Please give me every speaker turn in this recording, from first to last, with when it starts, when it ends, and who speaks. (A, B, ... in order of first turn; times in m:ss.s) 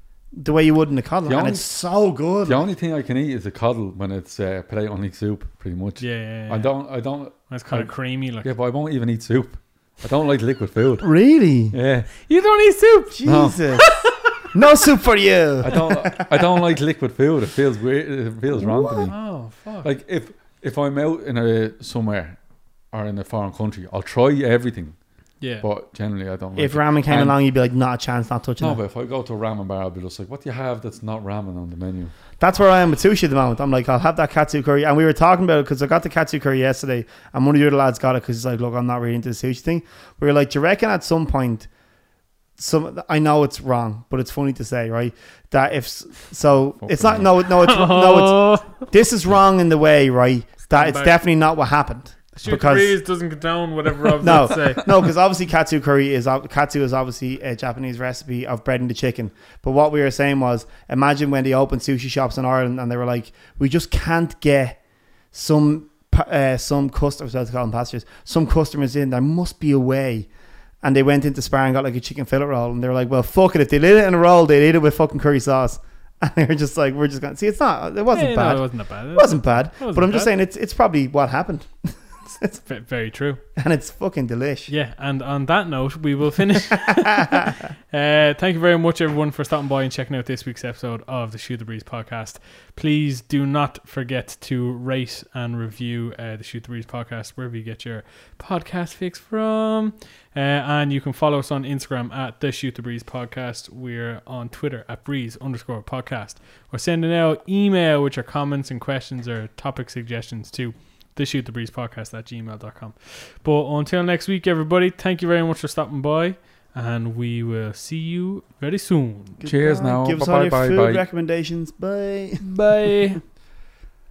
0:00.3-0:02.6 A
0:01.2-0:01.7 B
0:02.4-0:11.1 B
0:06.0-0:06.8 C
0:07.3-0:08.5 C
0:11.0-0:11.8 A
0:11.7-0:12.1 B
0:12.2-0:14.6 C
0:13.1-0:14.0 A
0:13.2-0:13.6 B
0:14.5-0:16.4 A
0:15.6-0:19.2 B
0:18.6-0:19.1 A
0:19.0-0:19.9 C
0:19.8-0:22.4 B
0:22.9-0:25.0 B
0:25.4-0:25.7 C
0:25.6-0:27.4 B
0:26.6-0:28.8 A
0:28.6-0:32.1 B
0:32.4-0:41.7 A
0:42.6-0:53.0 A
0:46.8-0:47.3 B
0:47.5-0:48.9 C
0:50.7-0:51.2 C
0:52.4-0:54.9 C
0:54.2-1:04.8 A
1:05.3-1:10.3 A
1:10.8-1:22.6 A
1:18.1-1:20.3 C
1:22.5-1:23.4 C
1:23.6-1:24.7 A
1:24.7-1:59.4 C
1:26.9-1:27.5 A
1:59.4-2:02.6 A
1:59.4-2:01.0 B
2:02.4-2:03.2 C